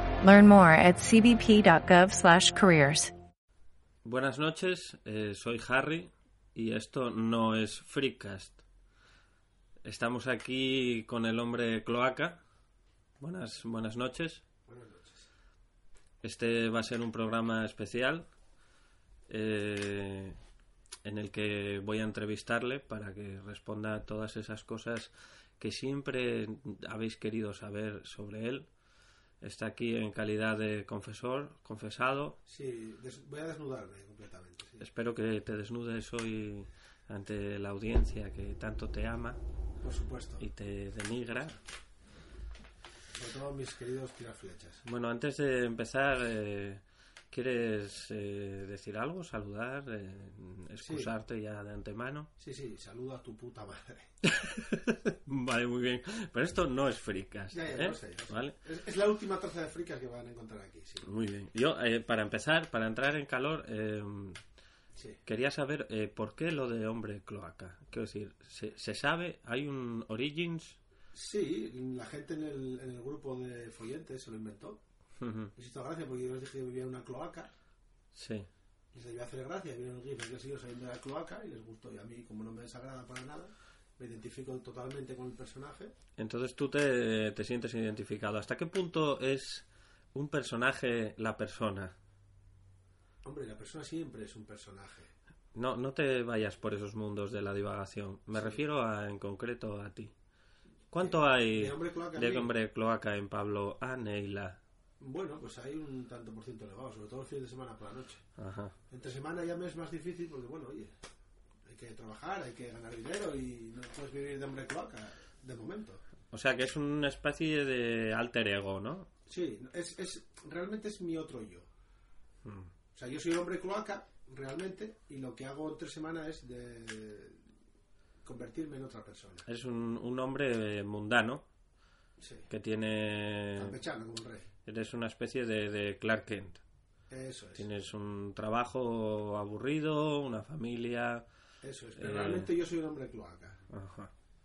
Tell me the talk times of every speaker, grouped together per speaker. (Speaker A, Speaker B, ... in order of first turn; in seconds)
Speaker A: 0.2-3.1
Speaker B: 4.0-8.6, 9.8-12.4, 13.2-14.4, 16.2-18.3, 19.3-20.4, 21.0-28.7, 29.4-32.4, 34.8-39.4, 40.4-41.6, 44.8-52.3, 54.2-58.5, 61.0-64.4, 65.2-70.8, 75.2-75.5, 78.1-78.5, 86.2-91.9, 95.5-100.1, 100.9-104.6, 108.4-108.7, 116.3-119.1, 122.4-122.7, 129.5-131.4, 132.5-133.8, 134.7-136.6, 137.6-141.2, 142.0-142.5, 143.7-144.1
Speaker C: 14.7-15.3, 32.5-34.8, 39.8-40.5, 43.1-44.8, 50.8-51.1, 52.4-54.1, 57.5-61.1, 71.1-74.8, 75.5-77.5, 78.9-85.9, 93.2-95.1, 98.3-98.6, 101.0-102.5, 105.0-108.2, 108.9-110.9, 111.7-116.0, 119.3-121.7, 122.9-127.4, 128.2-129.4, 132.2-132.5, 133.6-134.5, 137.1-137.7, 141.6-143.6